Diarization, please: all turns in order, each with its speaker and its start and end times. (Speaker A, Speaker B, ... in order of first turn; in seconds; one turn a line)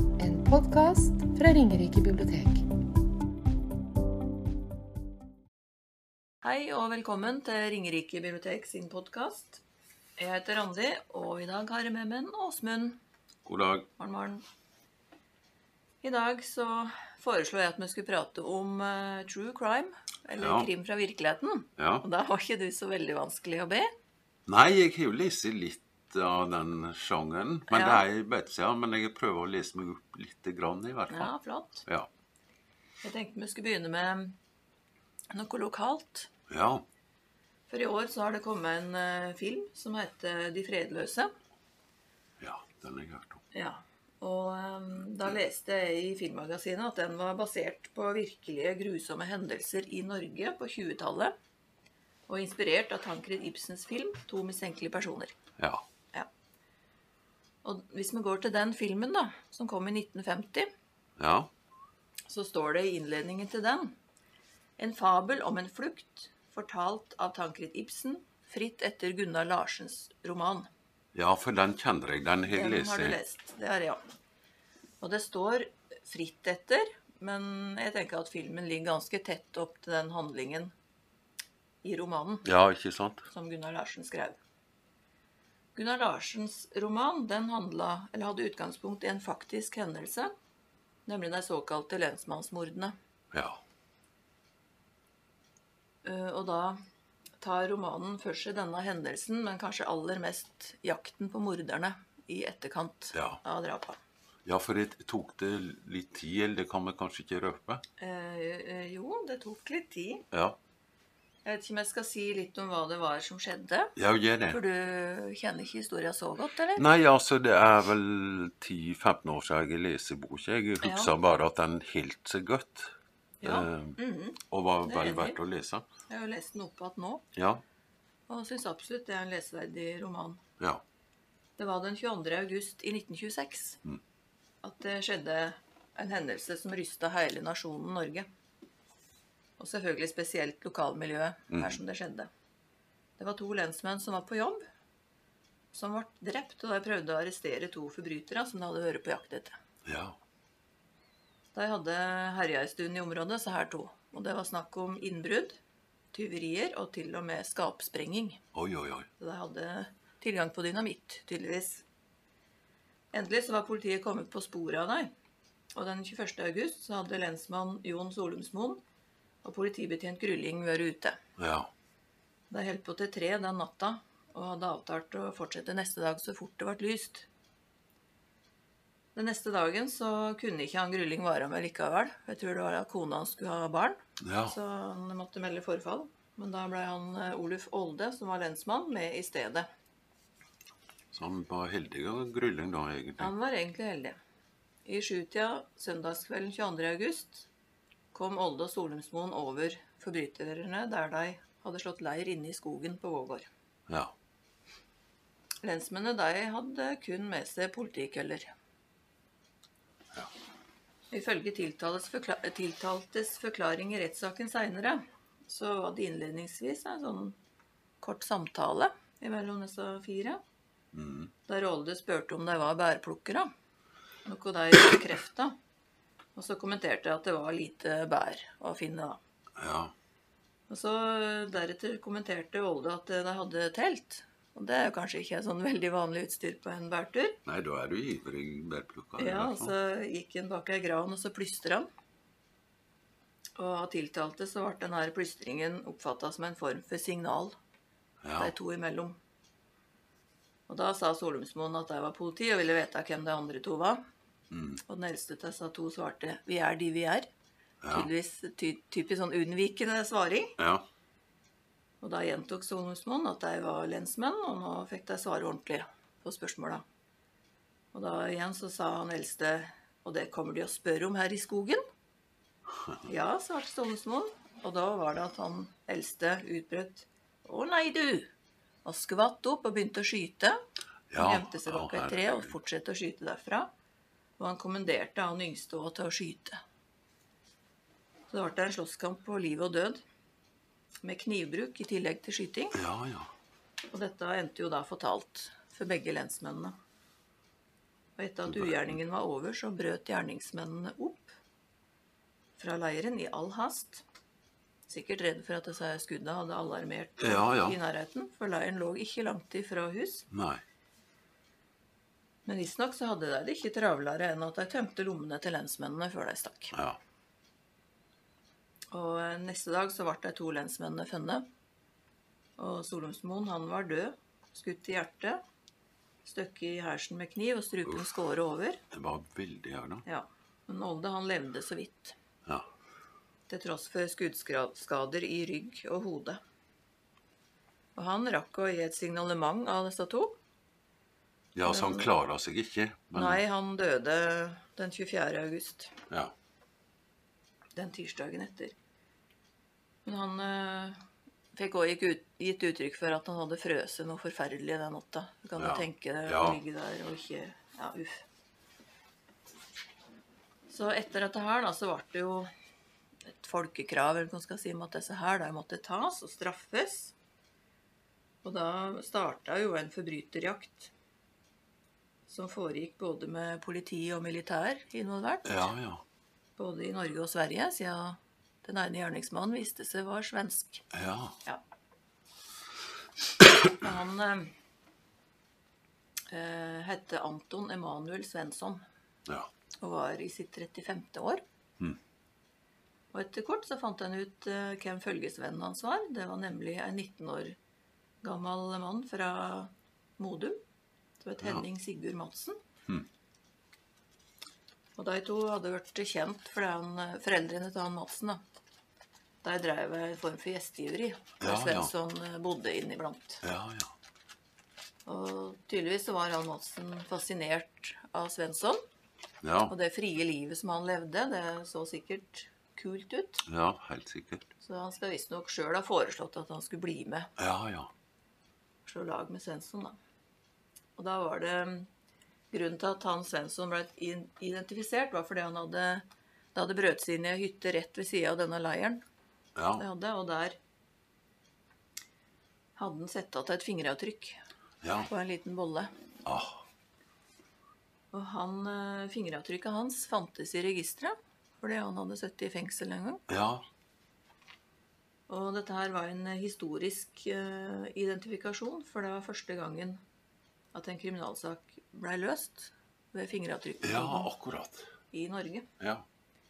Speaker A: 0.2-2.7
Speaker B: 6.4-9.6
Speaker B: 10.2-13.0
Speaker C: 13.4-13.9
Speaker B: 14.0-14.4
Speaker B: 16.0-23.9
Speaker C: 20.4-20.7
Speaker C: 21.8-22.1
Speaker C: 24.5-31.3
Speaker B: 27.7-28.0
Speaker B: 31.1-31.9
Speaker B: 33.0-34.4
Speaker B: 35.3-36.3
Speaker C: 36.5-36.9
Speaker B: 37.7-41.3
Speaker C: 42.4-43.4
Speaker B: 43.5-51.4
Speaker B: 52.3-55.4
Speaker C: 55.6-55.9
Speaker B: 57.6-60.7
Speaker C: 61.2-61.5
Speaker B: 62.3-64.0
Speaker B: 64.8-70.7
Speaker C: 71.1-73.2
Speaker B: 72.5-74.0
Speaker B: 75.0-80.7
Speaker B: 81.8-82.5
Speaker C: 82.5-83.3
Speaker B: 83.3-84.4
Speaker B: 85.8-90.3
Speaker B: 91.1-92.9
Speaker C: 93.3-93.6
Speaker B: 96.0-96.8
Speaker B: 97.4-104.0
Speaker C: 103.1-103.4
Speaker C: 104.5-107.8
Speaker B: 108.0-110.3
Speaker C: 110.3-110.6
Speaker B: 111.5-114.0
Speaker C: 114.0-114.6
Speaker B: 114.5-116.9
Speaker C: 116.8-125.9
Speaker B: 120.8-121.1
Speaker B: 123.4-125.4
Speaker B: 126.1-127.2
Speaker C: 127.3-127.6
Speaker B: 128.3-130.4
Speaker B: 131.6-133.8
Speaker B: 134.6-138.3
Speaker B: 139.6-142.3
Speaker C: 141.5-141.8
Speaker B: 143.2-144.6
Speaker B: 145.7-149.6
Speaker C: 149.8-150.2
Speaker B: 151.5-155.6
Speaker B: 156.1-158.4
Speaker C: 158.5-159.1
Speaker B: 159.2-161.8
Speaker B: 163.1-165.1
Speaker B: 165.8-168.8
Speaker B: 169.4-171.2
Speaker C: 171.4-171.7
Speaker B: 172.5-177.3
Speaker B: 179.2-189.7
Speaker C: 184.2-184.6
Speaker C: 191.1-193.3
Speaker B: 193.2-194.2
Speaker B: 194.8-197.5
Speaker B: 198.1-203.5
Speaker C: 203.9-204.1
Speaker B: 205.6-208.5
Speaker B: 211.1-217.4
Speaker B: 218.0-220.4
Speaker C: 220.9-221.3
Speaker B: 221.5-223.5
Speaker B: 224.2-225.6
Speaker B: 226.4-229.2
Speaker C: 229.6-229.9
Speaker B: 230.7-237.4
Speaker C: 237.5-239.7
Speaker B: 239.2-241.9
Speaker B: 243.6-247.6
Speaker C: 248.2-248.5
Speaker B: 248.4-249.2
Speaker B: 250.7-254.0
Speaker C: 254.5-254.8
Speaker B: 254.8-257.3
Speaker C: 257.8-258.1
Speaker B: 257.9-260.6
Speaker C: 260.6-260.9
Speaker B: 262.0-266.8
Speaker B: 267.9-271.8
Speaker B: 273.1-278.3
Speaker B: 278.9-280.6
Speaker C: 281.1-282.5
Speaker B: 281.2-283.7
Speaker B: 284.4-286.6
Speaker B: 288.3-290.0
Speaker B: 291.0-292.8
Speaker C: 292.7-293.3
Speaker B: 293.9-296.8
Speaker B: 298.2-301.4
Speaker C: 298.5-299.0
Speaker B: 302.6-304.0
Speaker B: 304.9-310.3
Speaker C: 307.2-307.8
Speaker C: 310.3-310.6
Speaker B: 312.5-316.8
Speaker C: 316.7-317.0
Speaker B: 318.9-321.5
Speaker B: 322.6-325.4
Speaker B: 326.2-328.8
Speaker C: 328.9-330.0
Speaker B: 330.1-332.2
Speaker B: 333.5-336.4
Speaker B: 338.0-340.4
Speaker C: 341.6-343.4
Speaker B: 341.6-342.1
Speaker B: 343.1-346.0
Speaker B: 347.8-348.8
Speaker B: 350.1-351.0
Speaker B: 351.6-358.2
Speaker C: 355.6-356.6
Speaker B: 360.7-362.5
Speaker B: 363.3-367.1
Speaker B: 368.4-370.9
Speaker B: 372.3-375.6
Speaker C: 375.4-376.0
Speaker B: 376.6-380.9
Speaker C: 380.9-381.4
Speaker B: 383.8-384.5
Speaker B: 386.3-388.8
Speaker B: 389.8-391.4
Speaker B: 393.1-397.6
Speaker B: 398.2-400.6
Speaker B: 401.2-402.6
Speaker B: 405.0-408.4
Speaker B: 409.4-413.4
Speaker C: 411.4-411.9
Speaker C: 413.4-413.9
Speaker B: 415.1-418.8
Speaker C: 419.4-419.7
Speaker B: 419.7-423.4
Speaker C: 423.5-424.4
Speaker B: 424.6-427.3
Speaker C: 427.4-427.9
Speaker B: 428.9-430.0
Speaker B: 431.0-431.9
Speaker B: 432.5-439.0
Speaker C: 439.6-439.9
Speaker B: 439.8-440.6
Speaker B: 442.8-444.4
Speaker C: 444.8-445.1
Speaker B: 445.1-445.9
Speaker C: 446.2-446.6
Speaker B: 448.1-453.2
Speaker C: 453.3-453.6
Speaker B: 455.3-460.0
Speaker B: 460.7-464.3
Speaker C: 463.8-464.9
Speaker B: 465.1-465.7
Speaker C: 465.8-466.1